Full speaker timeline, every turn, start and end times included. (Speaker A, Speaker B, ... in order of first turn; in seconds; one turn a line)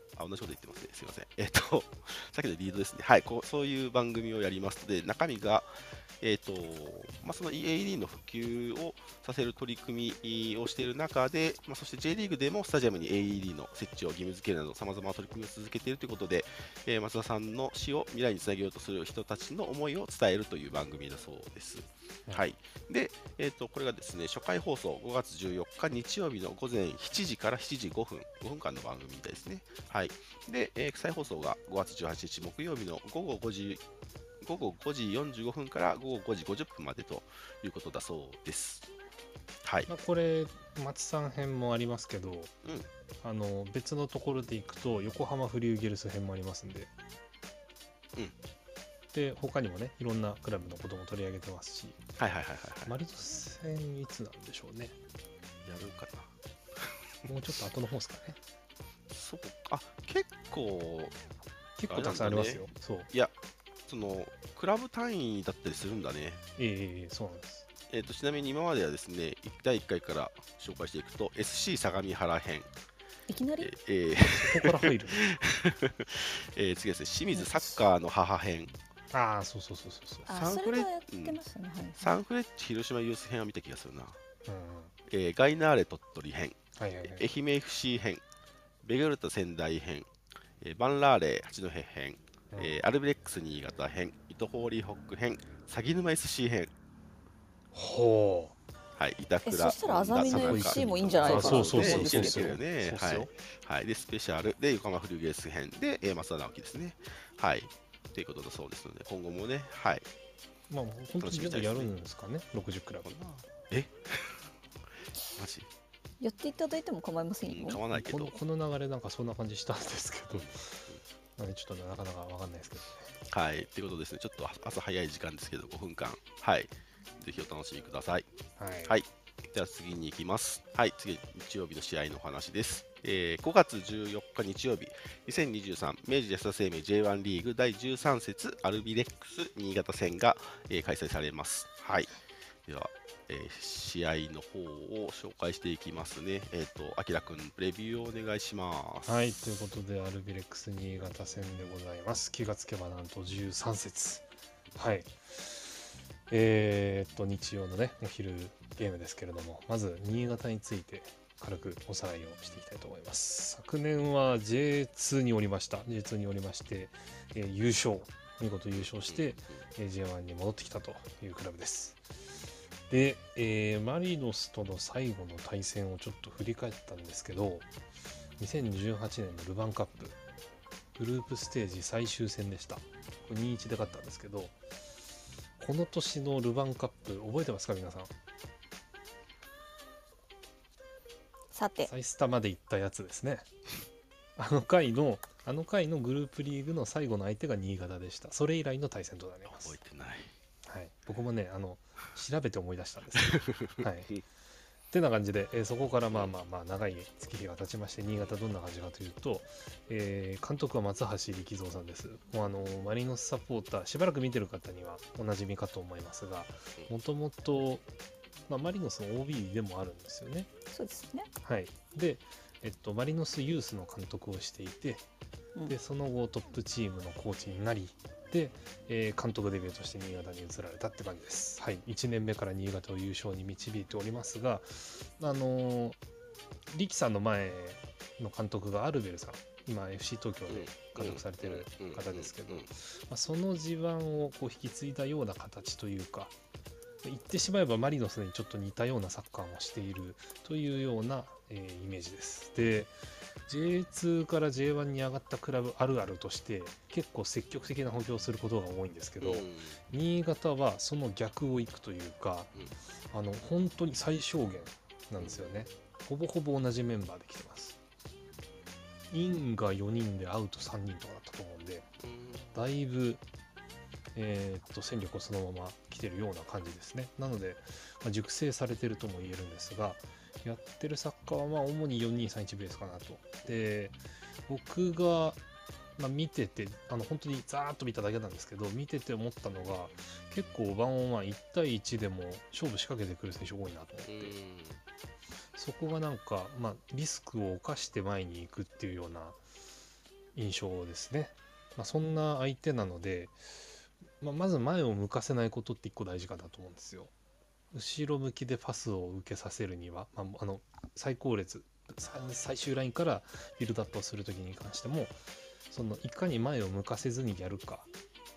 Speaker A: 0.1-33.8
Speaker A: 34.4-38.9
Speaker A: 39.6-39.9
Speaker B: 39.9-42.5
Speaker A: 42.6-42.9
Speaker B: 43.2-46.9
Speaker B: 49.1-52.0
Speaker A: 52.2-53.0
Speaker B: 52.9-55.0
Speaker A: 55.6-57.0
Speaker B: 57.3-58.4
Speaker A: 59.1-61.2
Speaker B: 61.8-63.1
Speaker A: 61.9-63.3
Speaker A: 63.9-66.4
Speaker B: 66.6-67.7
Speaker A: 67.9-72.7
Speaker C: 73.3-73.7
Speaker A: 73.6-78.7
Speaker B: 74.2-75.2
Speaker C: 77.3-77.7
Speaker B: 79.1-80.3
Speaker C: 80.3-82.1
Speaker A: 80.3-81.4
Speaker A: 82.0-84.2
Speaker B: 84.5-84.9
Speaker A: 85.1-88.2
Speaker B: 86.8-87.3
Speaker A: 88.8-96.7
Speaker B: 97.7-98.5
Speaker A: 99.0-110.1
Speaker C: 99.5-102.5
Speaker B: 100.3-103.3
Speaker B: 110.7-113.1
Speaker A: 111.2-111.9
Speaker A: 113.0-114.5
Speaker A: 115.3-115.7
Speaker C: 116.2-117.8
Speaker A: 117.5-118.3
Speaker B: 117.9-123.1
Speaker A: 120.3-121.0
Speaker A: 123.3-128.3
Speaker B: 128.6-129.0
Speaker A: 128.8-142.1
Speaker A: 142.7-149.5
Speaker B: 149.1-172.1
Speaker A: 168.7-169.6
Speaker B: 172.9-177.7
Speaker B: 178.4-180.2
Speaker B: 181.0-184.5
Speaker B: 185.6-188.1
Speaker C: 191.5-191.9
Speaker B: 191.8-193.5
Speaker B: 194.4-199.8
Speaker A: 199.5-200.3
Speaker B: 200.7-204.2
Speaker A: 203.2-204.2
Speaker B: 204.9-217.9
Speaker A: 206.1-206.4
Speaker B: 218.5-220.5
Speaker C: 220.7-221.3
Speaker B: 221.4-225.0
Speaker B: 225.7-236.0
Speaker B: 236.7-246.3
Speaker A: 240.5-242.7
Speaker B: 247.0-252.9
Speaker B: 253.5-262.5
Speaker A: 259.2-259.8
Speaker B: 263.1-267.8
Speaker A: 265.2-265.6
Speaker B: 269.1-271.9
Speaker A: 272.0-272.5
Speaker B: 272.5-273.2
Speaker B: 274.1-284.0
Speaker B: 284.5-285.4
Speaker B: 286.0-294.4
Speaker A: 294.1-294.8
Speaker B: 295.6-299.4
Speaker B: 300.4-307.1
Speaker B: 307.7-315.2
Speaker B: 315.7-317.9